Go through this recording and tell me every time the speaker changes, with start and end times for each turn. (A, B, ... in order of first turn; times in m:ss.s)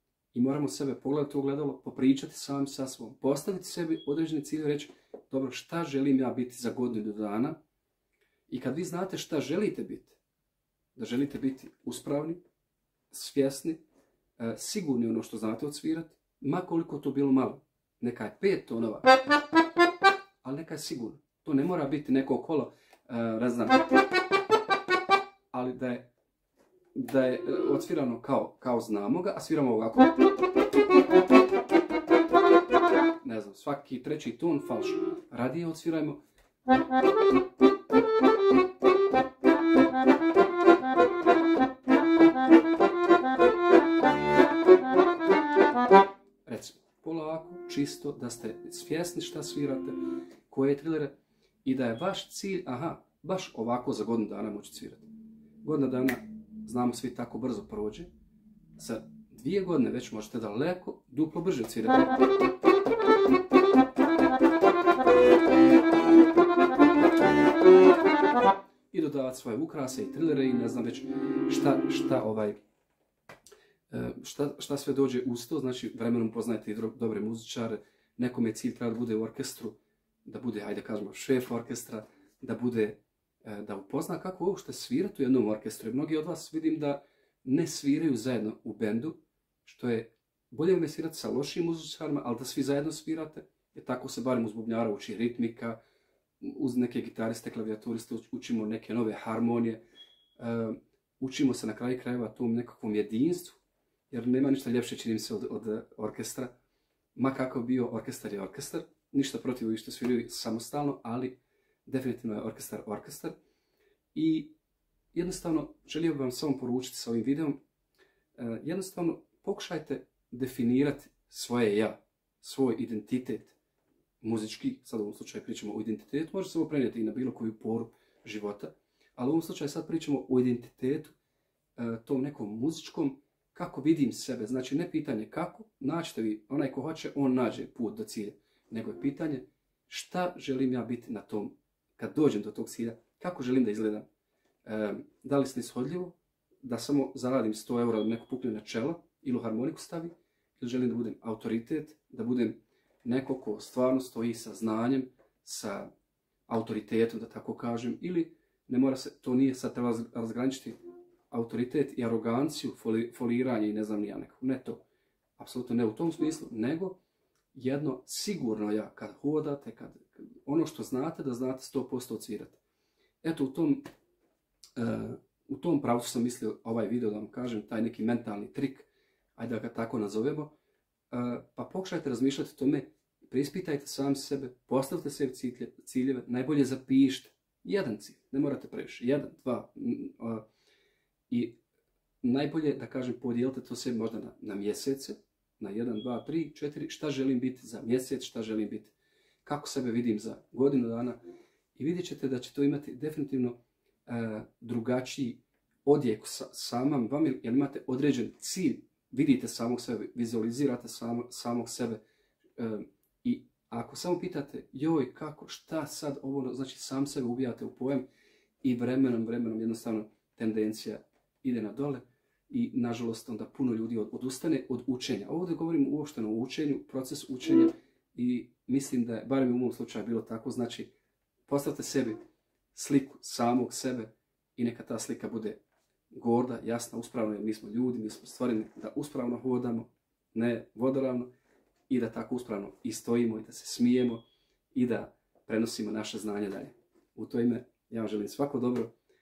0:00.3-0:07.6 A
0:08.5-0:10.2 A
0:11.0-0:12.4 A
0:13.1-0:13.8 A
0:14.4-0:19.1 A
0:20.4-0:23.8 A
0:25.5-0:26.1 A
0:26.9-0:30.1 A
0:33.2-0:36.2 A
0:46.4-0:50.0 A
0:50.5-0:55.1 A
0:55.6-0:58.1 A
0:58.8-1:02.0 A
1:08.9-1:12.6 A
1:13.9-1:35.8 A
1:36.4-1:39.8 A
1:40.4-1:46.5 A
1:47.2-1:53.3 A
1:54.1-1:54.5 A
1:55.1-1:57.6 A
1:58.4-2:03.6 A
2:04.2-2:11.2 A
2:11.8-2:24.0 A
2:24.6-2:35.9 A
2:36.5-2:40.8 A
2:41.3-2:44.8 A
2:45.4-2:47.0 A
2:47.5-2:52.6 A
2:53.2-2:53.8 A
2:54.8-3:00.5 A
3:01.1-3:10.4 A
3:11.3-3:11.6 A
3:12.2-3:21.2 A
3:21.7-3:32.0 A
3:32.6-3:38.0 A
3:38.6-3:50.9 A
3:51.5-3:52.2 A
3:52.7-3:55.6 A
3:56.1-4:01.3 A
4:01.9-4:08.9 A